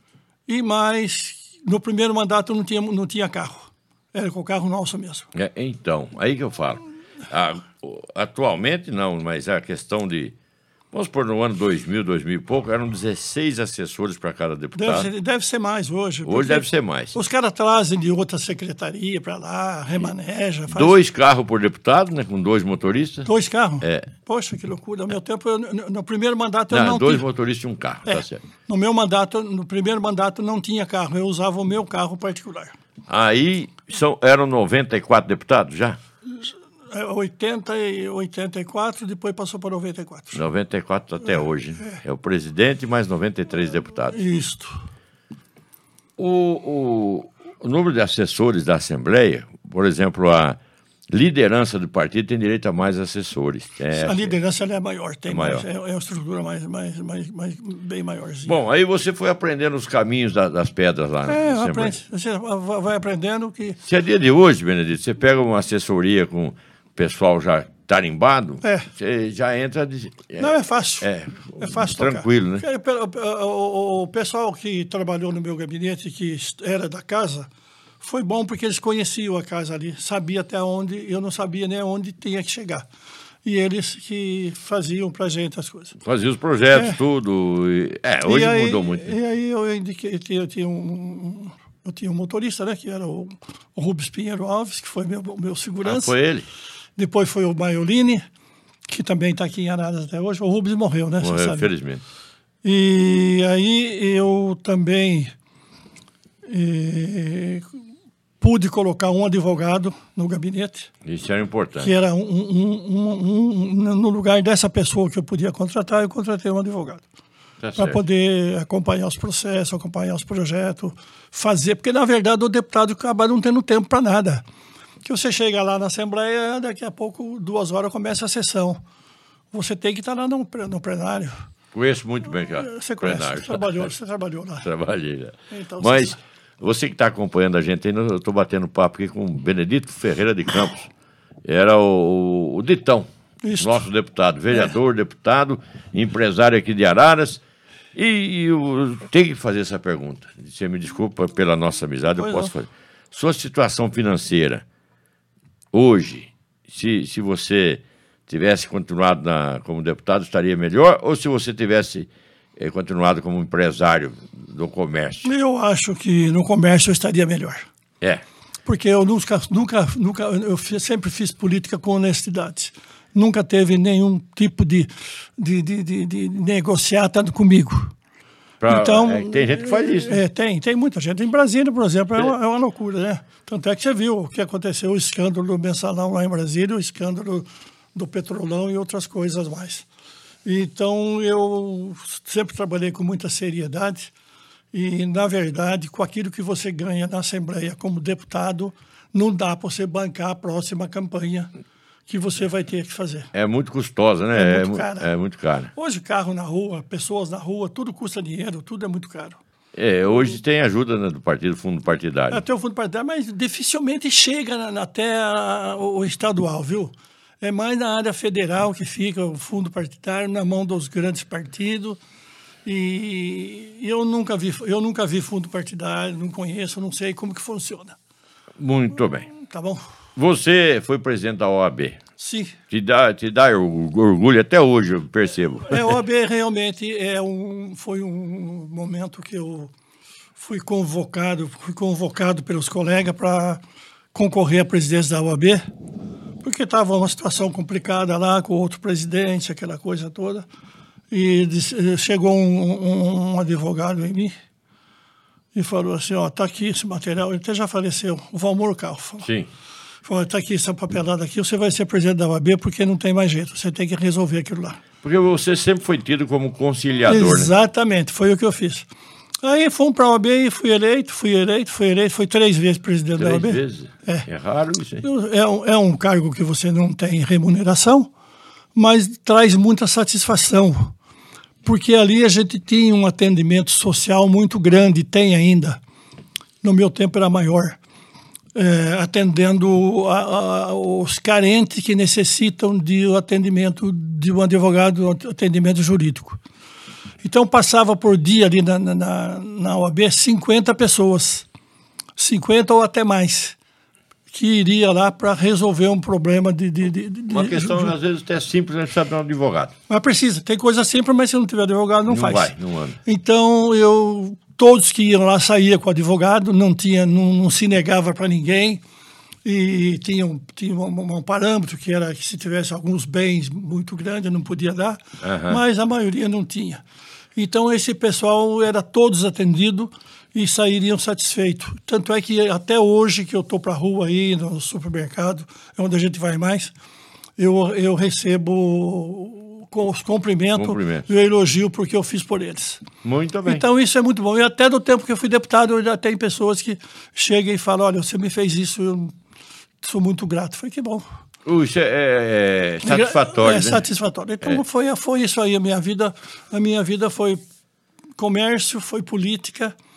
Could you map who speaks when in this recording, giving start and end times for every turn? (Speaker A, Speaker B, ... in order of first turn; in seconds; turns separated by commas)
Speaker A: 0.5-5.3, Speaker B: 5.3-10.3, Speaker B: 10.9-15.1, Speaker A: 14.8-21.0, Speaker B: 16.3-17.2, Speaker B: 20.7-23.3, Speaker A: 23.3-27.2, Speaker B: 23.8-24.1, Speaker B: 26.7-28.4, Speaker A: 28.1-32.7, Speaker B: 33.1-36.0, Speaker A: 36.3-40.4, Speaker B: 40.3-44.2, Speaker A: 44.1-44.8, Speaker B: 46.2-50.6, Speaker B: 51.1-54.4, Speaker A: 54.0-58.5, Speaker B: 55.3-55.6, Speaker B: 58.5-62.0, Speaker A: 61.3-63.8, Speaker B: 63.8-72.6, Speaker A: 68.6-68.9, Speaker A: 70.4-77.5, Speaker A: 78.0-82.9, Speaker A: 83.5-86.0, Speaker B: 86.0-89.2, Speaker A: 86.7-87.0, Speaker A: 88.2-96.1, Speaker B: 95.8-96.5, Speaker A: 97.0-98.2, Speaker A: 98.9-101.7, Speaker B: 101.2-102.0, Speaker A: 102.6-105.3, Speaker A: 106.5-107.7, Speaker A: 108.4-110.9, Speaker B: 111.0-111.9, Speaker A: 111.8-117.0, Speaker B: 117.6-118.0, Speaker A: 117.8-124.4, Speaker A: 125.0-128.8, Speaker A: 129.5-131.4, Speaker B: 131.7-133.9, Speaker A: 132.5-134.7, Speaker B: 134.6-140.9, Speaker A: 135.5-136.2, Speaker B: 141.4-143.1, Speaker A: 143.4-143.9, Speaker B: 143.6-147.4, Speaker B: 147.9-154.6, Speaker A: 152.2-152.5, Speaker B: 155.7-165.3, Speaker A: 165.2-167.7, Speaker A: 168.7-177.9, Speaker B: 178.6-180.2, Speaker A: 178.7-189.9, Speaker A: 190.4-194.1, Speaker A: 194.7-201.5, Speaker A: 202.1-203.3, Speaker B: 203.3-205.7, Speaker A: 204.3-205.1, Speaker A: 205.7-209.4, Speaker B: 209.8-212.4, Speaker A: 212.3-222.0, Speaker A: 222.7-228.0, Speaker B: 228.6-229.3, Speaker A: 229.3-229.8, Speaker B: 230.2-232.0, Speaker A: 232.2-232.6, Speaker B: 232.7-235.9, Speaker A: 235.7-239.7, Speaker A: 240.4-243.6, Speaker A: 244.1-245.6, Speaker A: 246.4-250.5, Speaker A: 251.1-254.3, Speaker A: 255.6-259.3, Speaker B: 259.2-259.5, Speaker A: 260.1-264.8, Speaker B: 265.0-267.5, Speaker A: 267.1-268.9, Speaker A: 269.4-274.3, Speaker B: 273.2-275.0, Speaker A: 275.0-278.1, Speaker A: 278.8-280.9, Speaker A: 281.6-285.8, Speaker A: 286.6-287.8, Speaker A: 288.6-296.4, Speaker A: 297.2-301.5, Speaker A: 302.2-303.6, Speaker A: 304.3-307.9, Speaker B: 307.3-309.7, Speaker A: 309.9-312.5, Speaker B: 312.1-313.0, Speaker A: 313.1-318.8, Speaker A: 319.4-326.8, Speaker B: 325.2-325.6, Speaker A: 327.4-336.7, Speaker A: 337.4-342.8, Speaker B: 340.6-341.1, Speaker B: 343.0-343.6, Speaker A: 343.5-349.1, Speaker A: 349.8-351.1, Speaker B: 351.4-353.9, Speaker A: 352.8-357.4, Speaker A: 358.2-359.7